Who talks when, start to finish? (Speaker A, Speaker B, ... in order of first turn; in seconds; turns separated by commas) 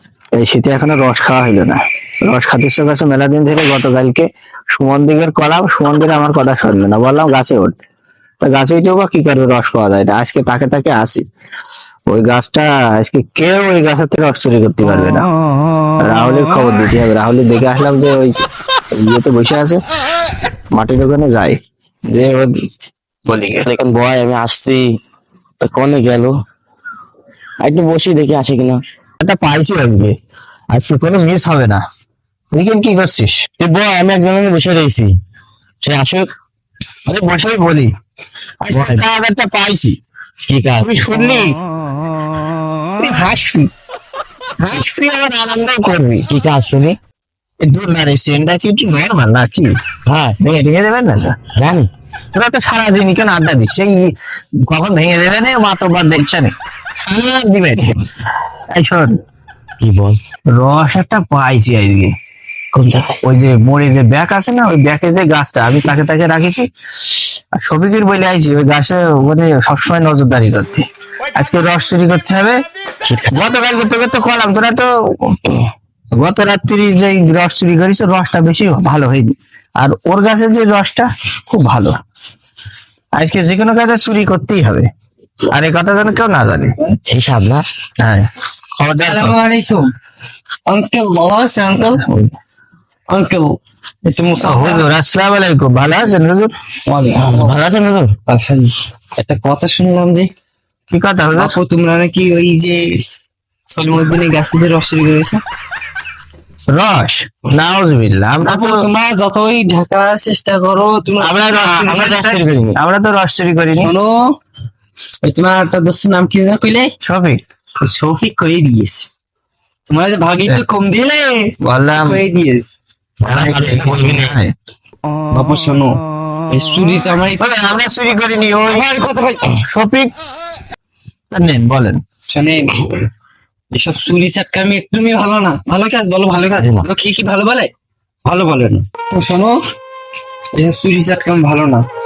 Speaker A: 0.4-7.7, Speaker A: 8.4-11.2, Speaker A: 12.1-15.2, Speaker A: 16.0-18.4, Speaker A: 18.9-19.8, Speaker A: 20.7-21.6, Speaker A: 22.1-22.5, Speaker A: 23.2-23.7, Speaker B: 23.6-24.9, Speaker B: 25.6-26.3, Speaker B: 27.6-28.8, Speaker A: 29.2-30.1, Speaker A: 30.7-31.8, Speaker A: 32.5-33.4, Speaker B: 33.6-35.1, Speaker B: 35.8-36.3, Speaker A: 37.1-37.9, Speaker A: 38.6-40.0, Speaker B: 38.7-39.0, Speaker B: 40.4-41.1, Speaker A: 40.8-41.6, Speaker A: 43.0-43.7, Speaker A: 44.6-46.3, Speaker B: 46.3-47.0, Speaker A: 47.6-49.7, Speaker B: 50.1-50.4, Speaker A: 50.4-51.4, Speaker B: 51.5-51.9, Speaker A: 52.3-54.1, Speaker A: 54.7-56.5, Speaker A: 57.0-57.8, Speaker A: 58.7-59.1, Speaker B: 59.8-60.2, Speaker A: 60.5-62.1, Speaker B: 62.7-63.2, Speaker A: 63.2-66.7, Speaker A: 67.5-72.6, Speaker B: 73.0-73.4, Speaker A: 73.3-75.4, Speaker A: 76.2-81.9, Speaker A: 83.2-84.9, Speaker A: 85.5-86.7, Speaker B: 87.0-87.6, Speaker A: 88.0-88.2, Speaker A: 88.8-89.3, Speaker C: 88.9-89.9, Speaker C: 90.7-92.0, Speaker A: 92.1-92.3, Speaker C: 93.1-94.8, Speaker A: 94.4-96.5, Speaker C: 96.9-97.6, Speaker B: 97.1-98.1, Speaker C: 98.3-100.3, Speaker A: 100.9-101.5, Speaker C: 101.3-103.0, Speaker C: 103.7-105.4, Speaker A: 106.7-108.8, Speaker C: 108.4-112.4, Speaker A: 111.2-113.9, Speaker B: 111.9-112.8, Speaker C: 113.8-114.3, Speaker C: 115.2-116.9, Speaker A: 117.0-117.4, Speaker C: 117.8-119.1, Speaker C: 119.9-122.7, Speaker A: 121.6-122.2, Speaker A: 123.2-124.5, Speaker B: 123.2-124.3, Speaker C: 125.3-127.4, Speaker A: 127.4-128.8, Speaker C: 128.7-129.6, Speaker A: 129.6-130.1, Speaker A: 131.3-132.0, Speaker C: 132.3-133.1, Speaker C: 133.7-137.7, Speaker B: 136.6-136.8, Speaker C: 138.2-139.6, Speaker C: 140.5-141.8